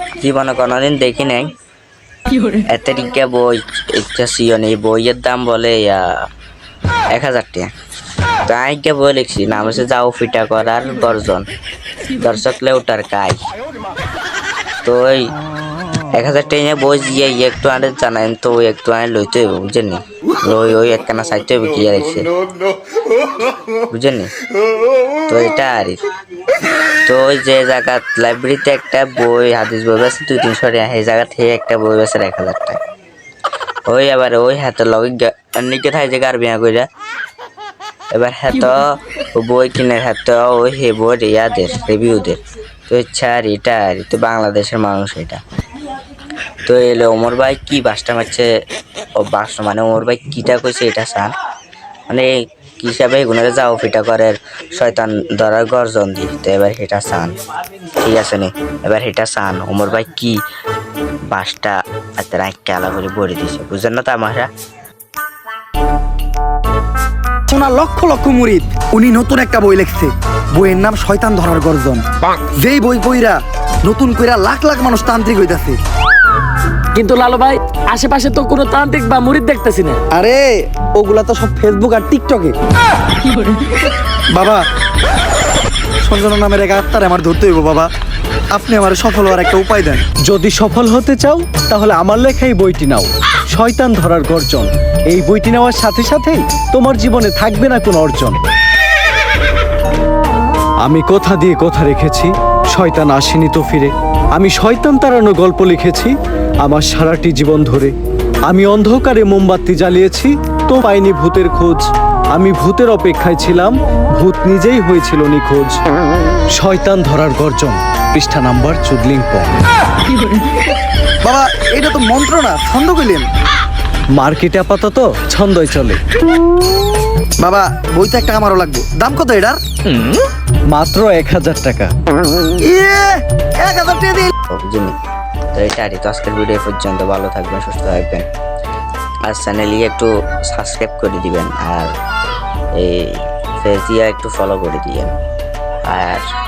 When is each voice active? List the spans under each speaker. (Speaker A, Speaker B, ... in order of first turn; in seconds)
Speaker A: 0.2-1.5, 2.5-6.1, 7.1-7.7, 8.4-11.5, 12.2-13.4, 14.8-15.3, 16.1-22.3, 23.9-24.3, 25.3-26.0, 27.0-32.8, 33.9-36.9, 38.1-45.4, 46.6-48.5, 49.2-51.3, 52.1-57.4, 58.0-60.4, 61.2-64.5, 134.5-134.9, 135.5-138.2, 139.3-141.9, 142.8-145.1, 145.8-146.3
Speaker B: 67.5-72.0, 72.5-75.8, 80.1-82.6, 84.3-84.6, 86.0-87.9, 88.5-90.0, 121.2-123.2, 127.4-129.6, 132.6-134.3
Speaker C: 76.9-80.0, 83.2-83.6
Speaker D: 90.2-98.4, 100.8-107.9, 108.5-115.8, 116.5-119.6, 124.1-126.0, 130.7-131.9